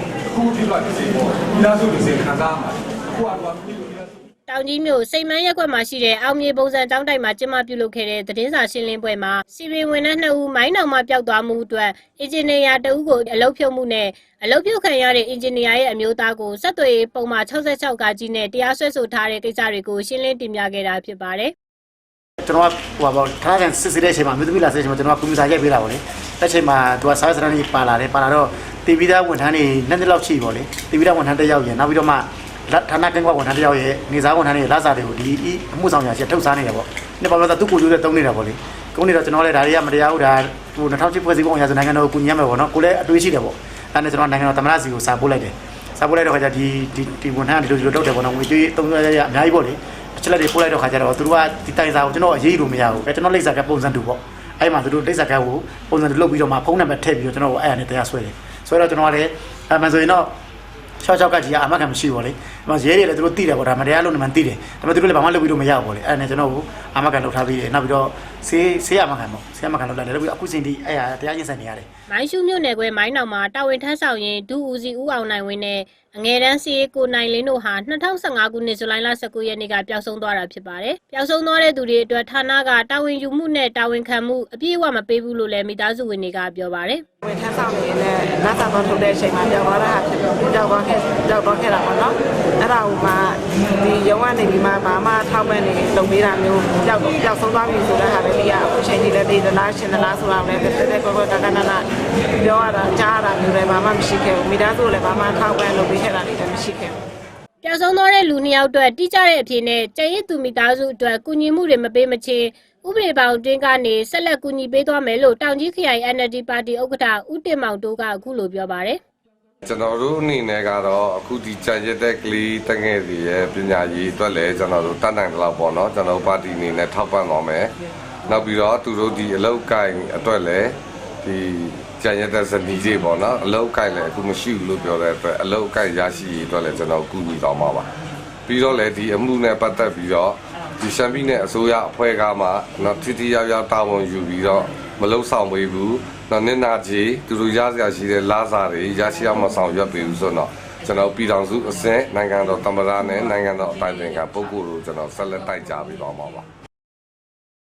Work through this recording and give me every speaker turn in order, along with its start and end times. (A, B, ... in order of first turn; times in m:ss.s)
0:00.4-0:02.7 A
0:03.3-0:03.6 A
0:04.5-0:21.5 B
0:22.4-1:00.3 C
1:01.0-1:11.9 C
1:12.1-1:27.0 B
1:27.3-1:32.1 D
1:32.6-1:41.8 D
1:42.4-1:46.9 D
1:47.6-1:59.0 B
1:59.6-2:07.7 E
2:08.3-2:17.9 E
2:18.5-2:36.4 E